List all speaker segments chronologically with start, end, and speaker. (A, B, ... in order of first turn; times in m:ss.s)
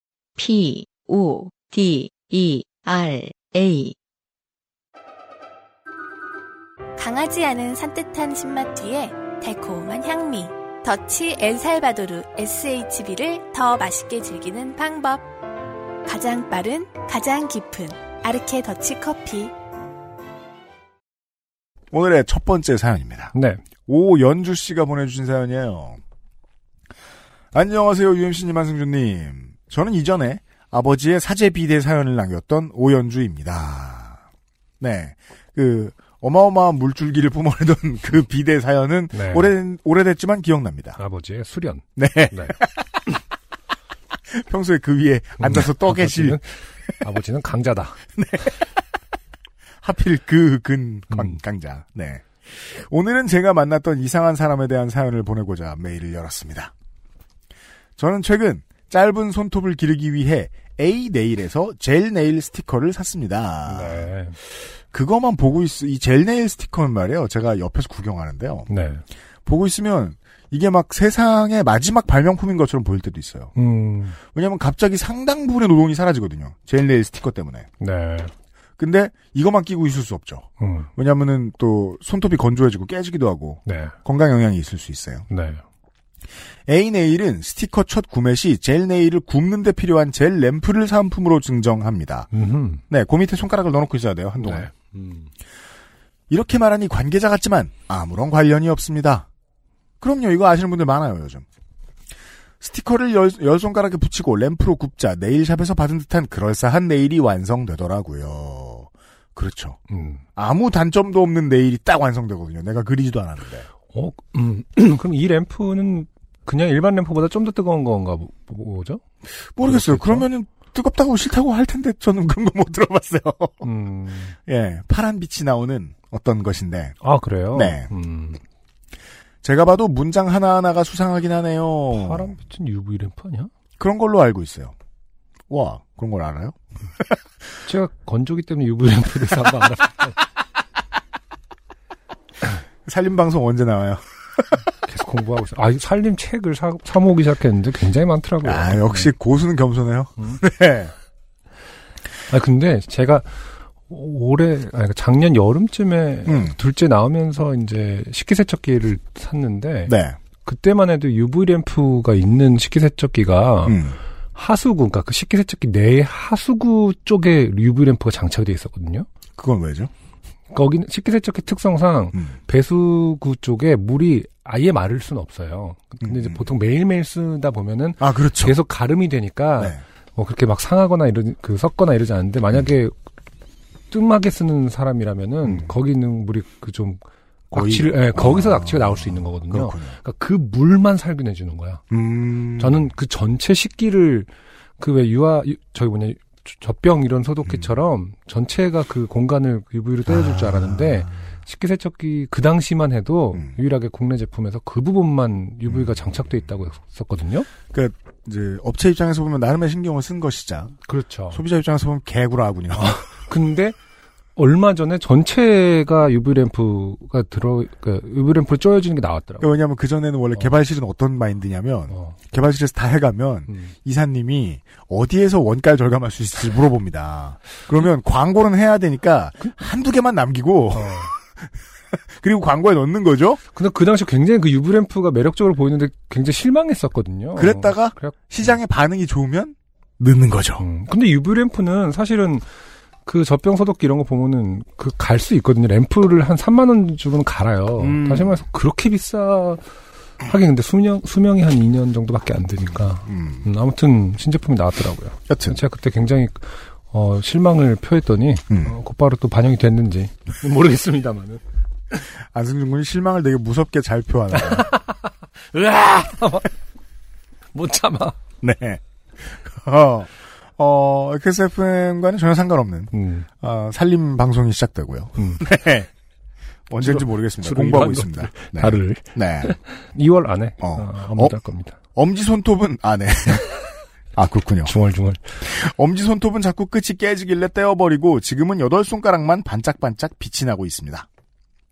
0:00.4-0:03.9 A
0:07.0-0:15.2 B
0:16.0-0:19.5 B
0:21.9-0:23.3 C
0:23.3-0:23.6 D
0:23.9-0:26.0 C
0:27.5-0:34.2 C
0:34.8-0:41.0 C
0:39.1-0:39.5 D
0:41.0-0:42.6 D
0:42.0-0:42.7 C
0:44.3-0:46.4 C
0:45.4-0:48.0 D
0:48.2-0:48.6 C
0:49.8-0:56.7 C
0:51.1-0:51.4 D
0:58.0-1:04.1 C
1:03.7-1:04.4 D
1:04.9-1:08.7 C
1:08.7-1:09.0 D
1:09.4-1:13.5 C
1:13.6-1:14.2 D
1:14.3-1:17.7 C
1:17.8-1:18.3 D
1:18.8-1:20.4 C
1:20.6-1:20.9 D
1:21.0-1:25.2 C
1:23.6-1:23.9 D
1:25.3-1:25.6 D
1:26.7-1:32.3 C
1:32.3-1:32.8 D
1:32.9-1:34.7 C
1:34.4-1:35.3 D
1:36.3-1:39.2 C
1:40.0-1:41.4 C
1:42.6-1:49.8 C
1:49.9-1:50.2 D
1:50.4-1:53.7 C
1:53.9-1:59.0 D
1:59.6-2:03.7 C
1:59.6-2:00.3 D
2:03.6-2:04.3 D
2:04.4-2:06.9 C
2:07.0-2:08.4 D
2:07.5-2:07.9 C
2:09.4-2:12.3 C
2:11.9-2:13.5 D
2:13.8-2:14.7 C
2:15.5-2:17.0 C
2:17.6-2:20.2 D
2:22.8-2:24.6 C
2:24.8-2:29.1 D
2:28.4-2:30.9 C
2:32.3-2:33.3 D
2:33.9-2:43.8 D
2:36.2-2:36.5 C
2:39.9-2:40.2 C
2:43.6-2:44.0 C
2:44.3-2:49.1 D
2:49.4-2:49.9 C
2:50.5-3:02.9 D
2:56.0-2:56.5 C
2:58.0-2:58.6 C
3:03.9-3:11.8 D
3:05.4-3:05.7 C
3:07.5-3:09.9 C
3:11.9-3:12.9 C
3:12.6-3:27.5 D
3:20.1-3:21.1 C
3:27.7-3:30.8 C
3:30.8-3:31.4 D
3:31.3-3:33.0 C
3:32.7-3:33.8 D
3:34.4-3:39.5 D
3:39.4-3:51.2 C
3:41.9-3:42.2 D
3:50.8-3:51.1 D
3:52.1-3:53.4 C
3:53.5-3:58.6 D
3:57.4-4:00.6 C
4:00.6-4:02.4 D
4:03.0-4:09.6 D
4:07.8-4:08.4 C
4:10.2-4:21.4 D
4:13.0-4:13.4 C
4:15.3-4:15.6 C
4:22.3-4:24.7 C
4:24.4-4:26.5 D
4:27.5-4:28.2 D
4:28.4-4:35.9 C
4:32.9-4:33.3 D
4:35.2-4:35.4 D
4:36.7-4:39.5 C
4:36.8-4:41.8 D
4:40.6-4:41.4 C
4:41.9-4:43.5 C
4:44.2-4:44.7 C
4:44.6-4:45.3 D
4:45.4-4:51.1 C